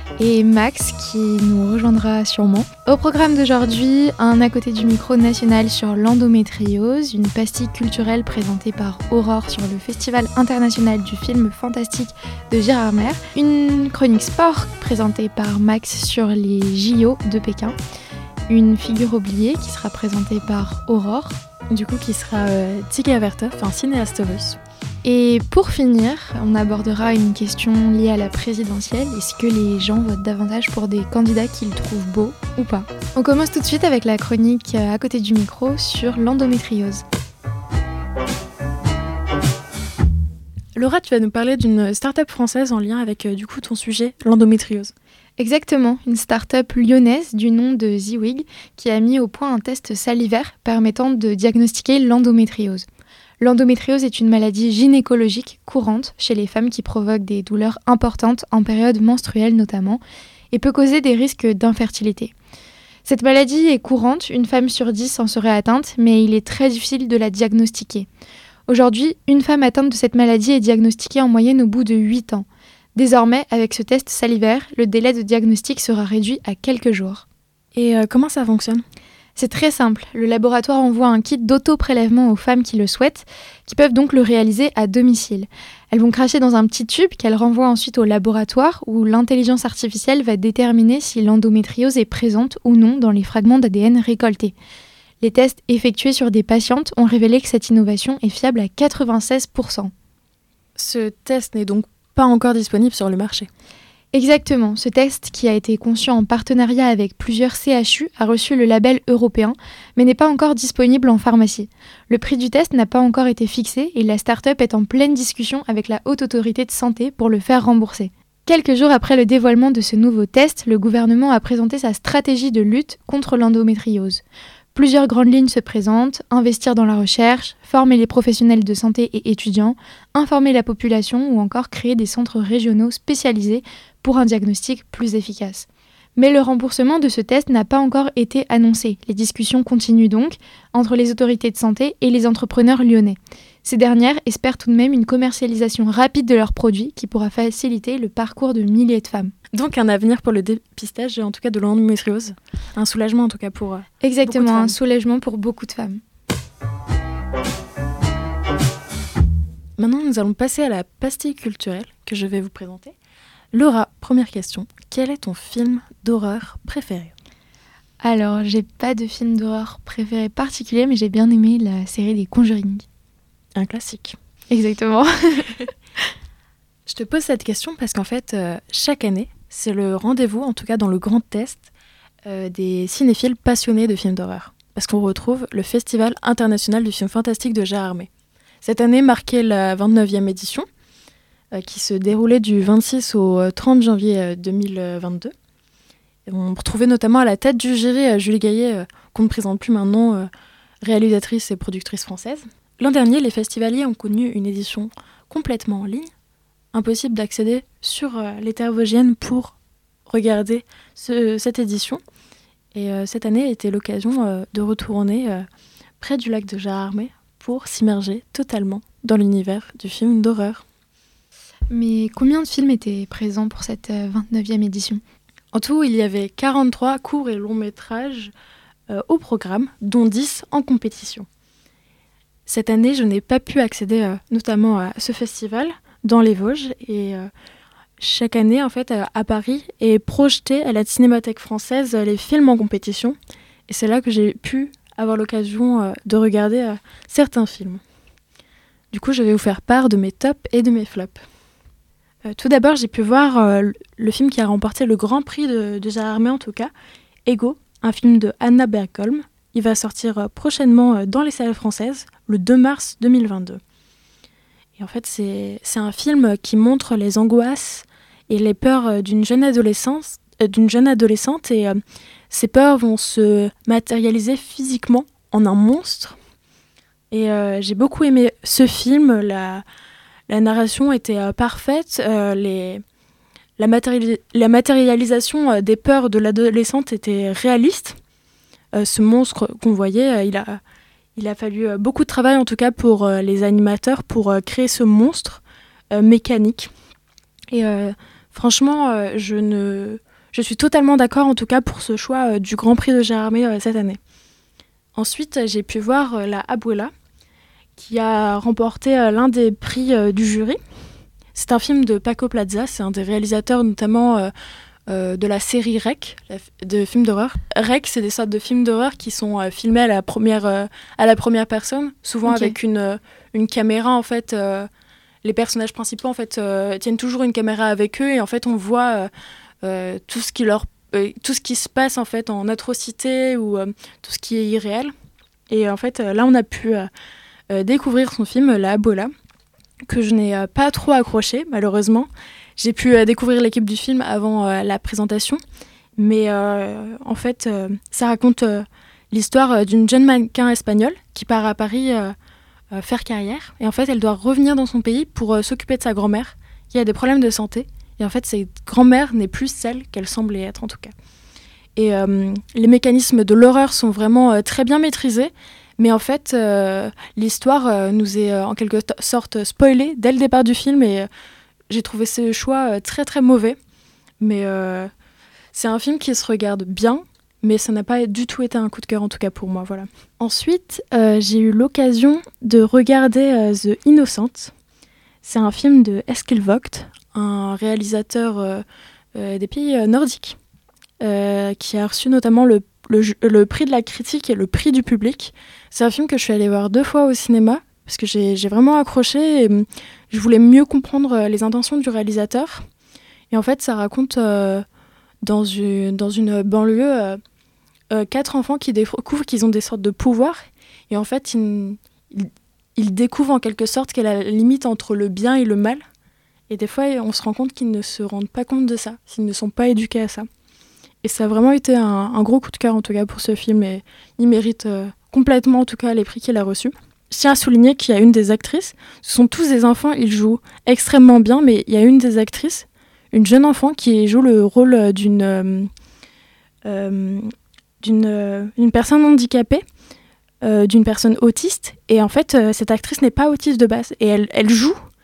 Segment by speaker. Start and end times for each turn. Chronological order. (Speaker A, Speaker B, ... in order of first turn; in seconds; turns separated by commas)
Speaker A: 0.2-17.8, Speaker A: 18.5-21.4, Speaker B: 21.7-24.6, Speaker A: 25.0-37.0, Speaker B: 40.8-44.9, Speaker A: 45.4-52.9, Speaker A: 53.4-62.3, Speaker A: 63.1-68.1, Speaker A: 68.7-77.2, Speaker B: 77.8-78.8, Speaker A: 79.4-94.5, Speaker A: 95.2-99.9, Speaker B: 100.8-103.5, Speaker A: 104.1-124.2, Speaker A: 124.7-149.3, Speaker B: 149.5-154.8, Speaker A: 154.0-156.0, Speaker B: 159.8-162.9, Speaker B: 163.5-167.1, Speaker A: 168.0-172.8, Speaker B: 173.6-174.2, Speaker A: 174.5-175.6, Speaker B: 176.9-181.7, Speaker B: 182.2-188.1, Speaker B: 188.6-190.7, Speaker B: 191.5-195.3, Speaker B: 196.3-200.3, Speaker B: 200.8-206.1, Speaker B: 206.7-209.6, Speaker B: 210.1-212.0, Speaker B: 212.7-215.4, Speaker B: 216.0-220.6, Speaker A: 221.7-225.0, Speaker B: 225.5-228.3, Speaker B: 228.9-231.3, Speaker B: 232.5-237.3, Speaker B: 238.0-243.2, Speaker B: 243.7-247.8, Speaker B: 248.9-251.2, Speaker B: 252.3-256.7, Speaker B: 257.3-263.6, Speaker B: 264.8-271.8, Speaker B: 272.3-276.2, Speaker B: 277.1-279.6, Speaker B: 280.3-282.8, Speaker B: 283.6-288.0, Speaker B: 288.7-290.6, Speaker B: 291.2-296.7, Speaker B: 297.5-304.0, Speaker B: 304.9-306.9, Speaker B: 307.8-310.6, Speaker B: 311.4-314.3, Speaker B: 314.9-324.7, Speaker A: 322.3-322.6, Speaker B: 325.2-329.1, Speaker B: 329.6-334.9, Speaker B: 335.5-336.9, Speaker B: 337.5-339.1, Speaker B: 339.9-345.4, Speaker B: 346.0-352.1, Speaker B: 352.7-360.9, Speaker B: 361.8-371.1, Speaker B: 371.7-373.6, Speaker B: 374.2-374.9, Speaker B: 375.5-384.5, Speaker B: 385.2-388.6, Speaker B: 389.1-390.4, Speaker B: 391.0-402.6, Speaker B: 403.3-404.6, Speaker B: 405.2-407.2, Speaker B: 407.9-415.8, Speaker B: 416.5-420.3, Speaker B: 421.0-435.7, Speaker B: 436.6-437.3, Speaker B: 437.8-439.6, Speaker B: 440.4-444.8